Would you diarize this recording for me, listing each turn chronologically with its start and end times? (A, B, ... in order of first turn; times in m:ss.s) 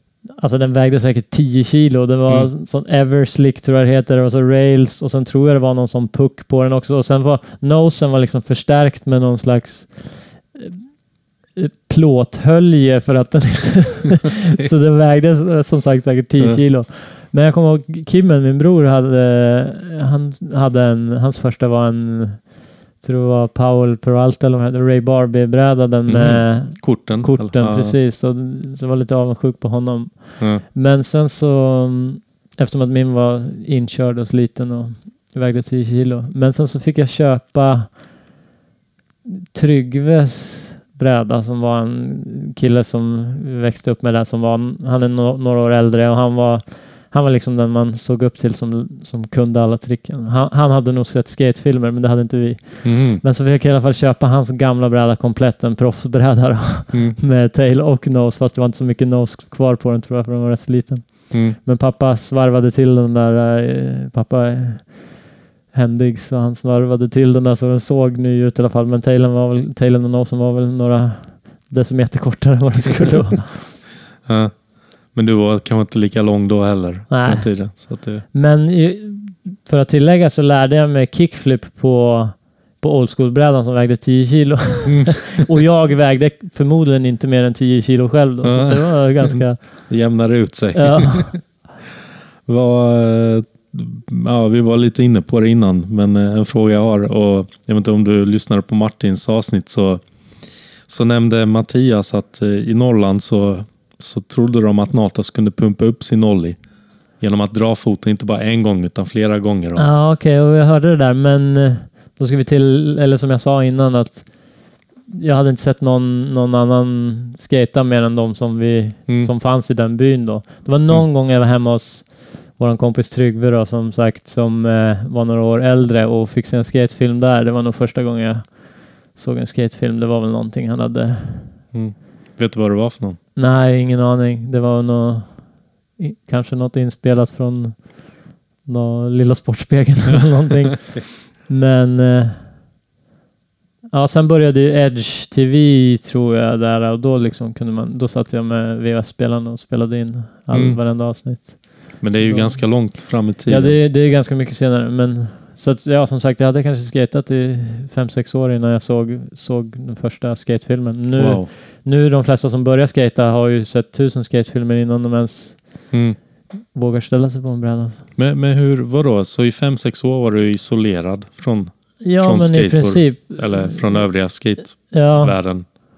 0:00.4-0:10.8 A
0:11.5-0:38.0 A
0:26.0-0:28.0 B
0:39.2-1:13.7 A
0:52.8-0:53.2 B
0:56.9-0:57.2 B
1:01.3-1:01.6 B
1:14.2-1:18.2 B
1:17.1-1:30.0 A
1:28.4-1:31.5 B
1:30.8-1:31.5 A
1:32.4-1:40.0 B
1:40.8-1:46.6 B
1:47.2-1:49.9 B
1:49.8-2:11.6 A
2:11.7-2:13.2 B
2:13.4-2:22.4 A
2:23.9-2:45.9 A
2:30.5-2:30.8 B
2:32.0-2:33.8 B
2:41.2-2:41.5 B
2:45.9-2:46.2 B
2:46.7-2:48.1 A
2:48.2-2:55.6 B
2:52.0-2:55.4 A